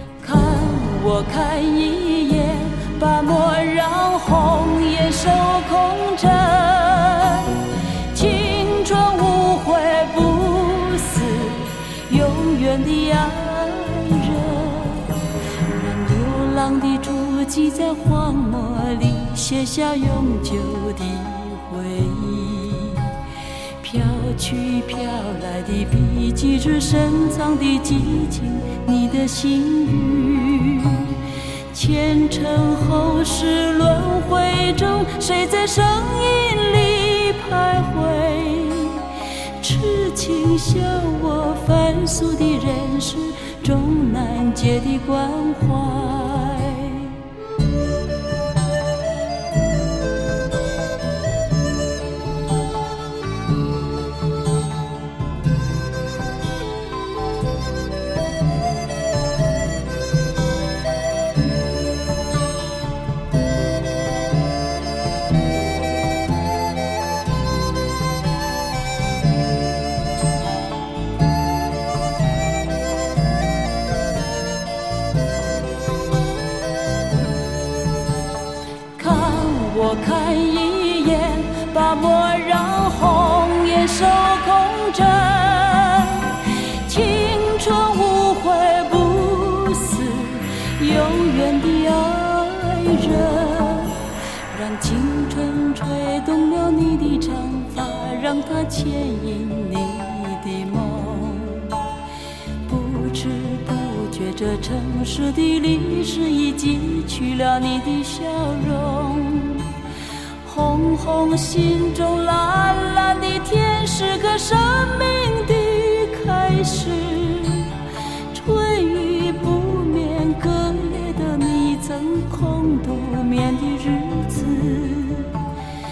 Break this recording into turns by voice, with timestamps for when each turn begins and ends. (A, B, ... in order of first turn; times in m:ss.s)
0:00.2-0:23.1 A
0:23.8-0:47.2 A
1:19.0-1:41.8 A
1:42.6-1:49.8 A
1:50.4-2:05.4 A